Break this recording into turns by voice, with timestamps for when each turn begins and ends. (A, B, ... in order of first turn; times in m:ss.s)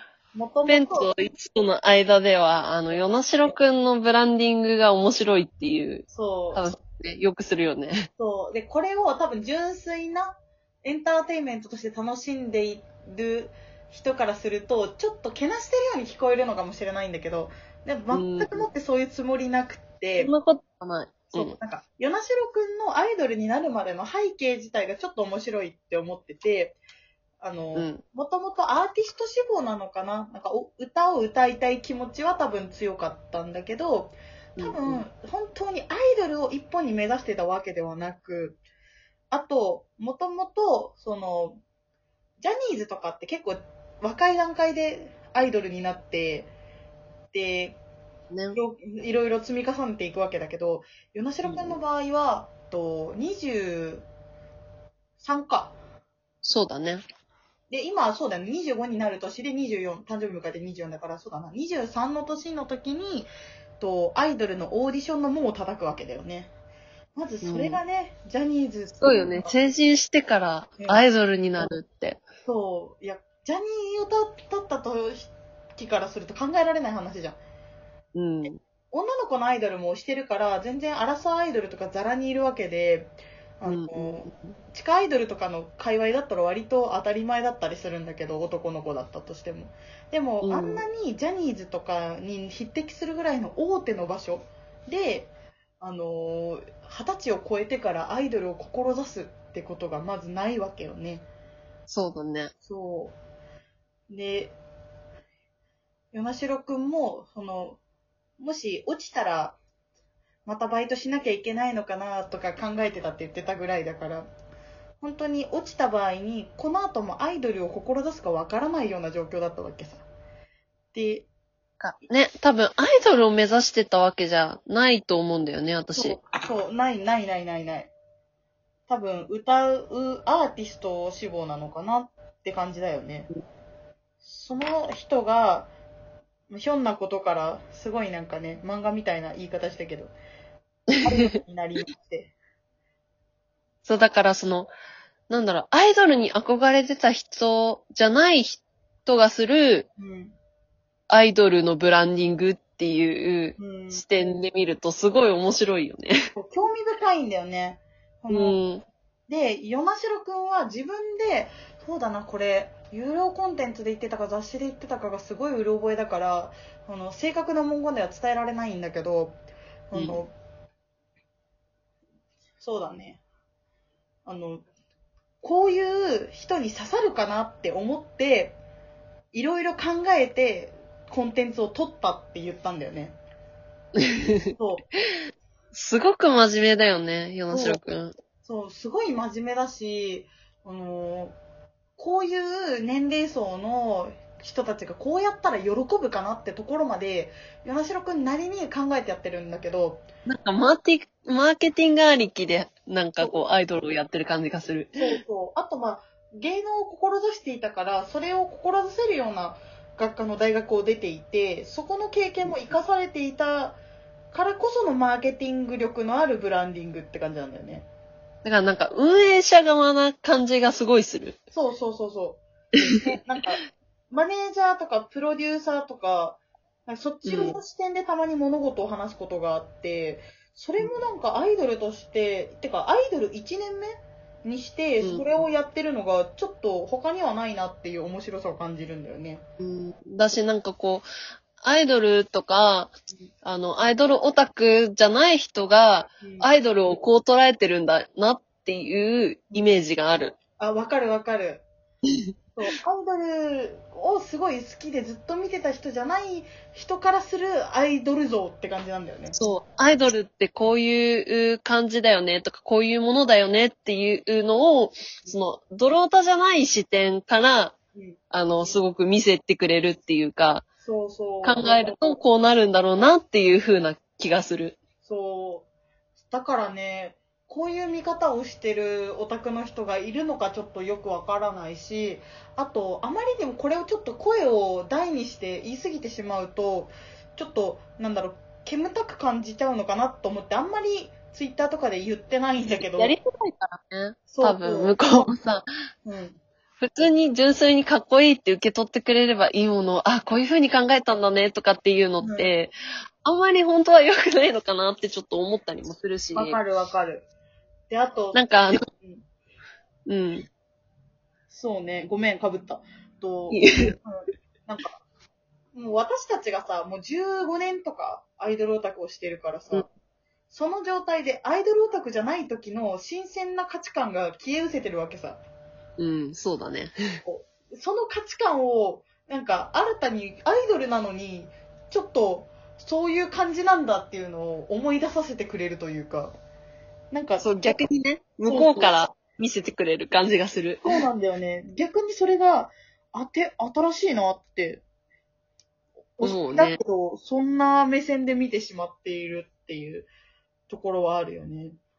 0:00.3-0:01.1 A
0:00.7-0:08.1 B
0:02.9-0:03.5 A
0:06.1-0:06.6 A
0:08.2-0:20.3 A
0:18.1-0:18.6 B
0:20.2-0:21.6 B
0:21.3-0:26.8 A
0:27.4-0:38.6 A
0:27.7-0:28.0 B
0:34.6-0:35.0 B
0:39.3-0:41.6 A
0:42.4-0:46.5 A
0:47.3-0:47.8 A
0:48.3-0:48.6 B
0:48.5-0:54.0 A
0:51.4-0:51.8 B
0:55.2-0:55.8 A
0:56.4-0:57.0 B
0:57.7-1:06.5 A
1:07.2-1:09.5 A
1:07.4-1:07.8 B
1:09.0-1:12.2 B
1:10.8-1:11.0 A
1:12.4-1:17.4 A
1:18.1-1:18.6 B
1:18.4-1:41.3 A
1:23.6-1:24.5 B
1:30.4-1:30.8 B
1:41.9-1:42.5 B
1:42.6-1:43.2 A
1:44.1-1:44.6 A
1:46.1-1:47.8 A
1:48.4-1:49.6 A
1:50.4-1:54.3 A
1:55.0-2:00.0 A
2:00.9-2:01.3 A
2:01.8-2:06.2 B
2:05.9-2:07.9 A
2:08.9-2:13.3 A
2:14.2-2:15.7 A
2:16.5-2:20.1 A
2:20.9-2:21.3 B
2:21.0-2:22.3 A
2:23.8-2:24.7 B
2:25.3-2:29.9 B
2:30.0-2:30.3 A
2:31.1-2:36.1 B
2:33.6-2:34.0 A
2:36.3-2:38.6 A
2:38.3-2:38.8 B
2:39.3-2:49.4 A
2:49.9-2:50.3 A
2:49.9-2:50.2 B
2:52.6-2:53.2 A
2:54.2-2:54.6 A
2:55.4-2:58.6 A
2:59.3-3:03.2 A
3:04.0-3:04.6 B
3:04.6-3:04.8 A
3:05.7-3:08.1 B
3:07.5-3:07.8 A
3:08.4-3:11.4 A
3:12.0-3:20.0 A
3:20.3-3:25.2 B
3:25.0-3:33.8 A
3:34.3-3:37.9 A
3:38.4-3:41.4 B
3:41.5-3:59.4 A
3:42.8-3:43.2 B
3:47.2-3:47.6 B
3:59.6-4:01.0 B
4:01.6-4:10.3 B
4:06.2-4:06.5 A
4:10.6-4:11.6 A
4:12.6-4:19.4 A
4:19.3-4:27.7 B
4:28.3-4:30.6 B
4:30.8-4:31.9 A
4:31.4-4:34.8 B
4:35.0-4:35.6 A
4:36.3-4:53.1 A
4:52.8-4:55.6 B
4:54.3-4:55.3 A
4:56.0-4:56.4 A
4:56.8-5:02.7 B
5:02.2-5:02.5 A
5:03.2-5:06.6 B
5:06.3-5:07.2 A
5:07.9-5:09.2 A
5:08.3-5:08.8 B
5:10.1-5:10.5 B
5:11.5-5:15.0 A
5:13.5-5:13.9 B
5:15.7-5:19.9 A
5:20.5-5:25.4 A
5:26.0-5:27.2 B
5:27.2-5:36.3 A
5:37.1-5:37.8 A
5:37.4-5:41.1 B
5:38.4-5:39.0 A
5:40.8-5:44.8 A
5:46.2-5:50.1 A
5:46.2-5:46.8 B
5:50.7-5:51.8 A